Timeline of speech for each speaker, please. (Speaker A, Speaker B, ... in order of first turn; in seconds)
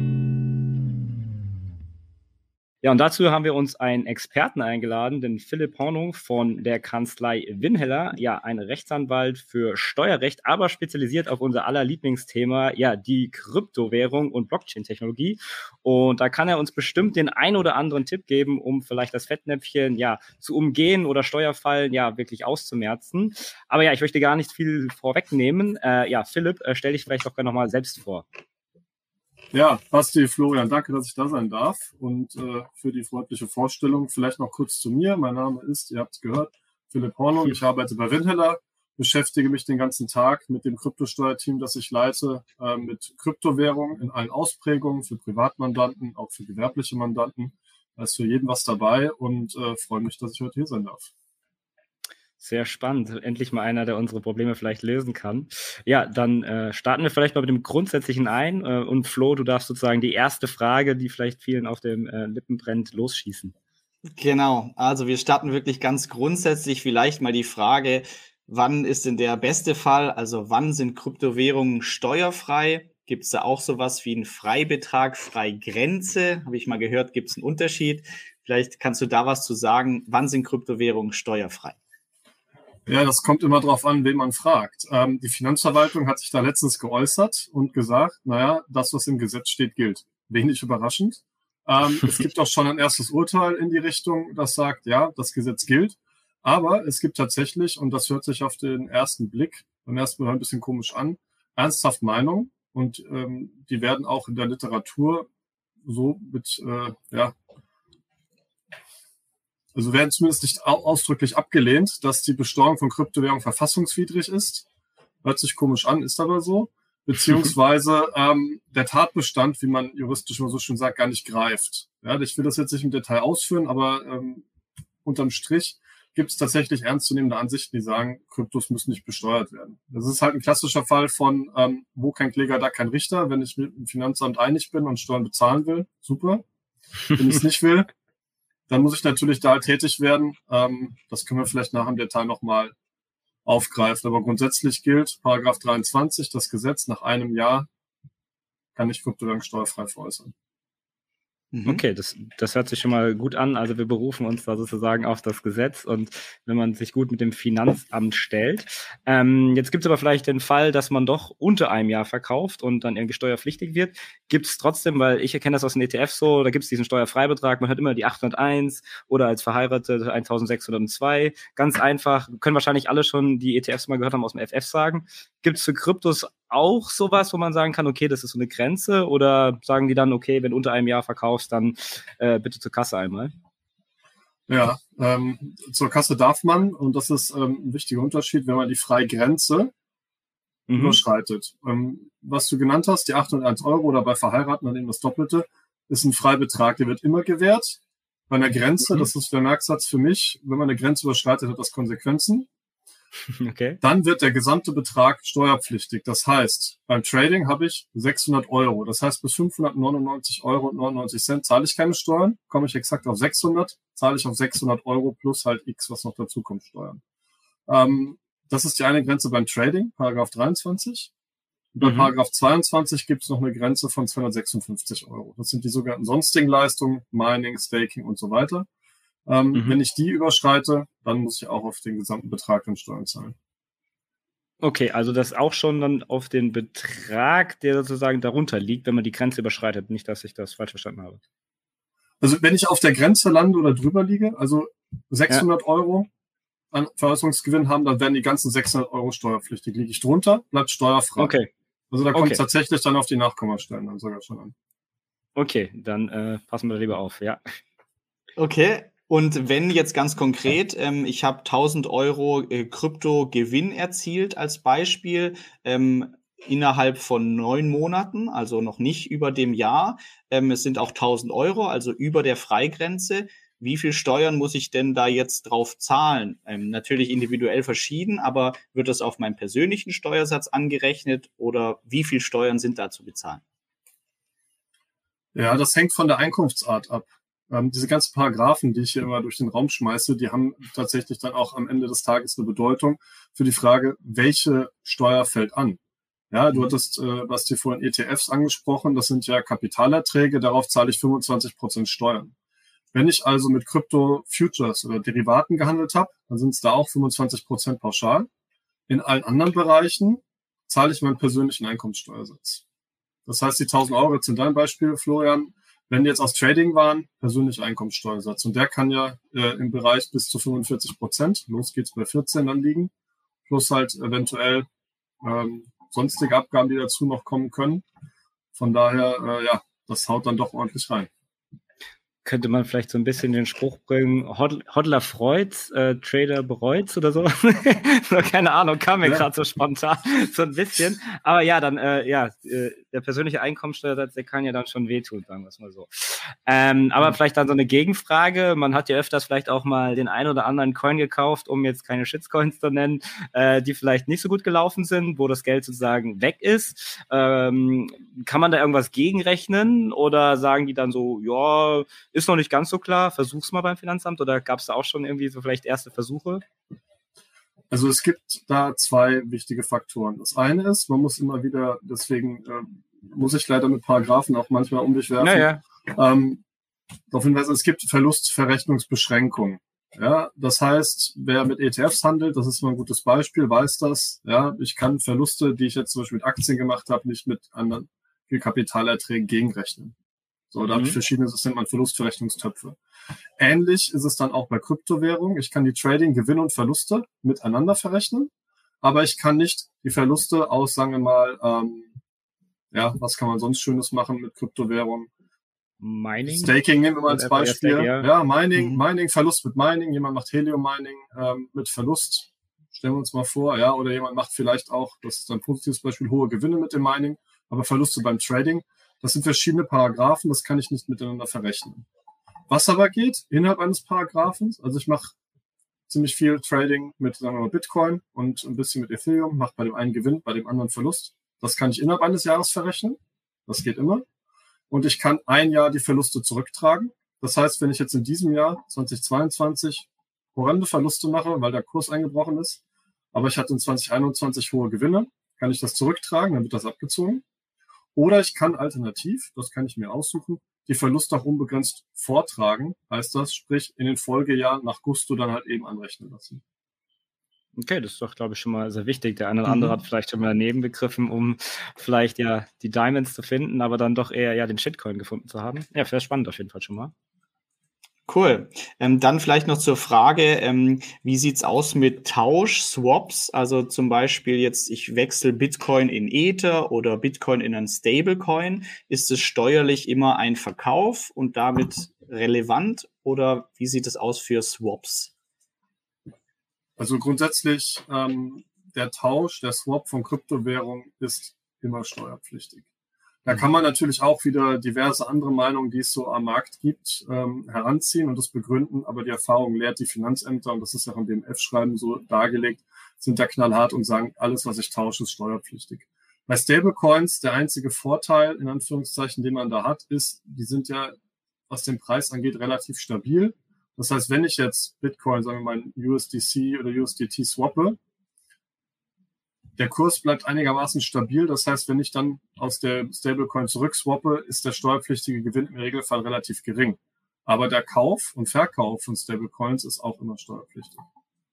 Speaker A: 2.8-28.2, 52.4-63.5, 151.7-183.3, 190.7-191.0, 203.4-203.8, 221.8-222.1, 229.5-229.8, 234.6-241.2, 251.2-251.5, 252.1-252.4, 255.3-257.4, 332.2-366.4, 375.2-375.6, 390.7-391.0, 405.8-406.6, 407.1-408.1, 457.6-466.9
Speaker B: 29.5-51.1, 82.8-105.3, 105.8-107.3, 109.7-114.7, 115.2-124.4, 125.0-136.4, 137.1-137.9, 138.7-142.7, 143.4-147.7, 148.7-150.3, 184.5-189.7, 190.7-202.5, 203.8-217.0, 217.7-221.1, 221.7-228.7, 229.2-233.3, 242.2-246.1, 246.7-251.4, 251.9-254.5, 285.3-295.8, 296.3-302.3, 302.9-308.3, 308.9-312.6, 313.2-322.9, 323.5-324.7, 325.2-327.8, 328.5-331.1, 367.7-376.4, 377.1-389.9, 390.5-392.8, 393.4-398.3, 398.8-401.9, 402.7-405.1, 406.2-421.9, 422.5-425.1, 425.9-434.1, 434.7-442.6, 443.1-447.2, 447.9-456.4, 486.8-492.6, 493.2-510.9, 511.5-517.8, 519.6-530.8
Speaker C: 64.1-81.8, 151.5-151.8, 258.4-283.4, 459.5-459.7, 468.1-485.1